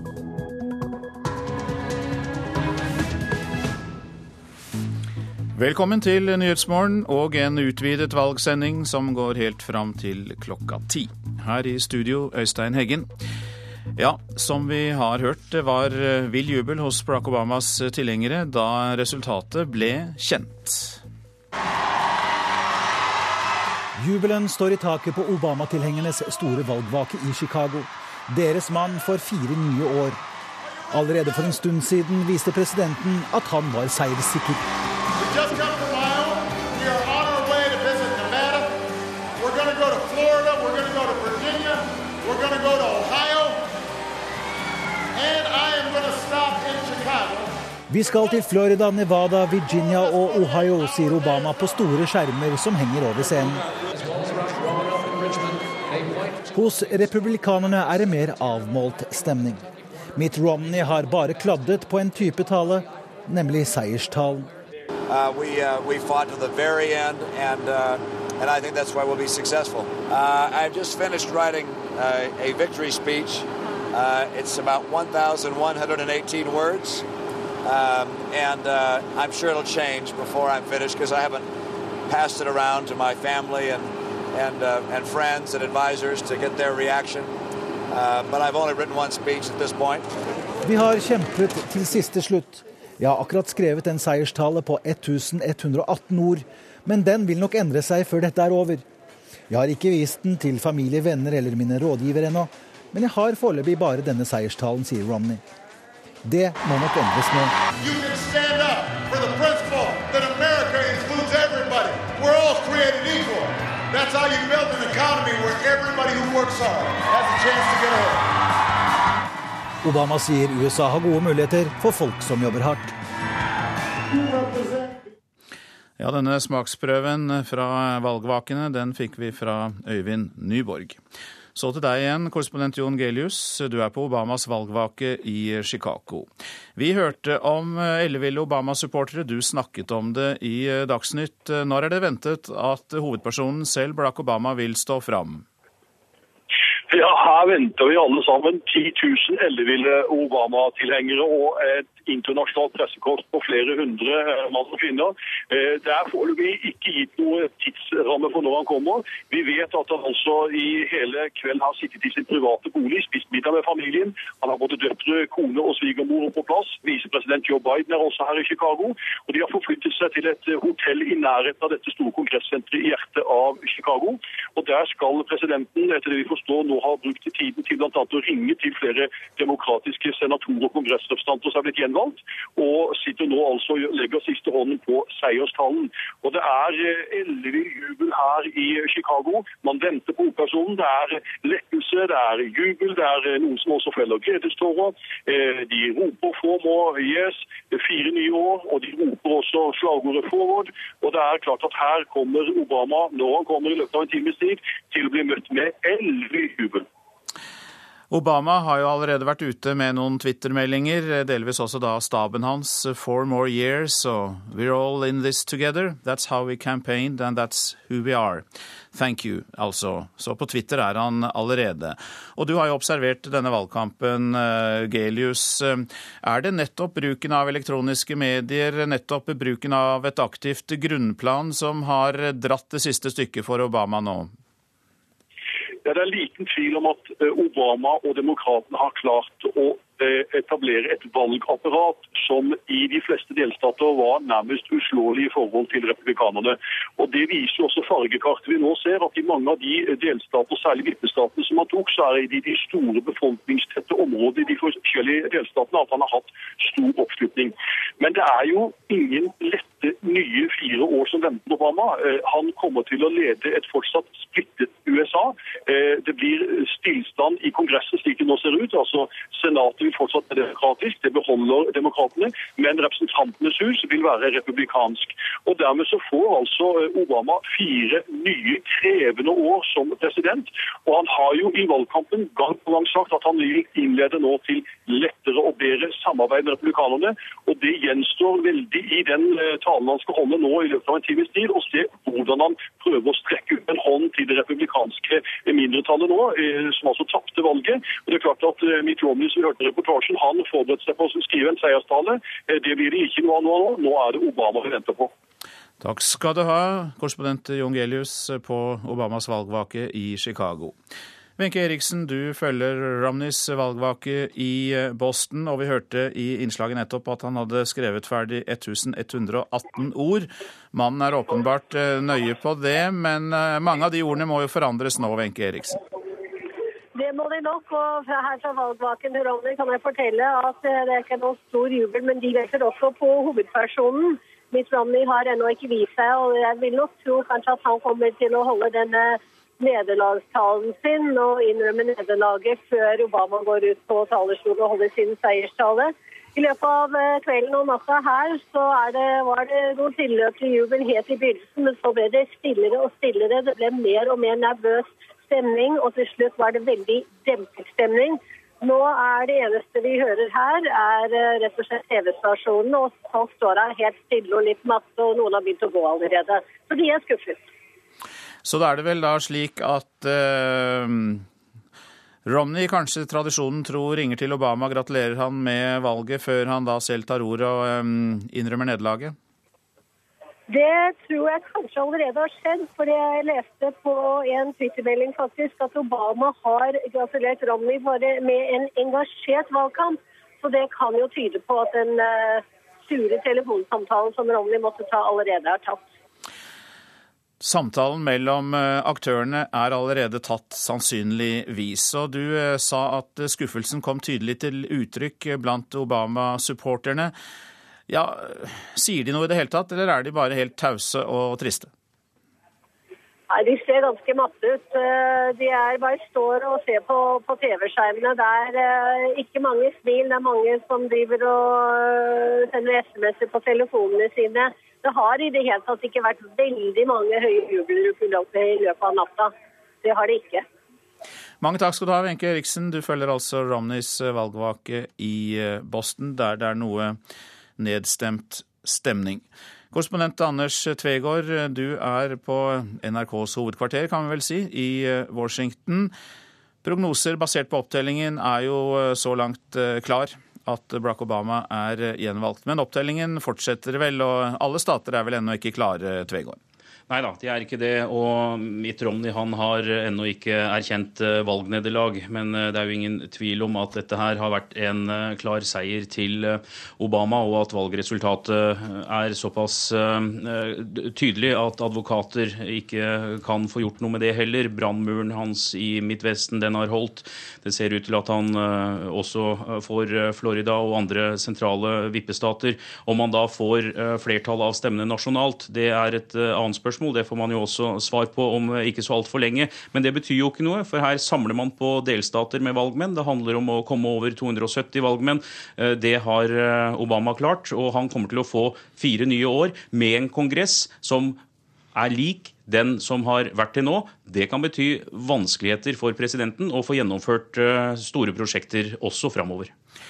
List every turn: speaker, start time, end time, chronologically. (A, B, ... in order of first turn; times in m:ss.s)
0:05.5-0:13.1 A
0:14.0-0:21.0 A
0:24.0-0:30.2 B
0:30.9-0:34.6 B
0:35.2-0:38.8 C
0:39.4-0:43.7 C
0:45.1-0:47.5 C
0:47.9-0:53.6 B
0:56.5-0:59.6 B
1:00.2-1:04.5 B
1:05.1-1:17.0 D
1:17.6-1:21.5 D
1:22.1-1:27.3 D
1:27.9-1:30.1 D
1:30.6-1:38.8 B
1:39.5-1:45.4 B
1:46.2-1:47.5 B
1:47.8-1:58.3 C
1:59.8-2:02.9 B
2:04.1-2:04.9 C
2:06.0-2:11.0 A
2:11.5-2:25.4 A
2:26.9-3:26.8 E
3:28.1-3:54.3 A
3:55.8-5:05.1 E
5:05.8-5:10.8 A
5:11.4-5:25.8 A
5:26.9-6:07.4 F
6:08.4-6:11.3 A
6:12.2-6:19.2 A
6:20.5-6:35.9 F
6:37.4-6:47.1 A
6:47.9-6:51.7 A
6:53.3-7:09.3 F
7:09.8-7:10.4 F
7:11.4-7:17.0 A
7:17.6-7:25.9 A
7:26.6-7:36.4 A
7:36.9-8:21.2 G
8:21.7-8:29.5 G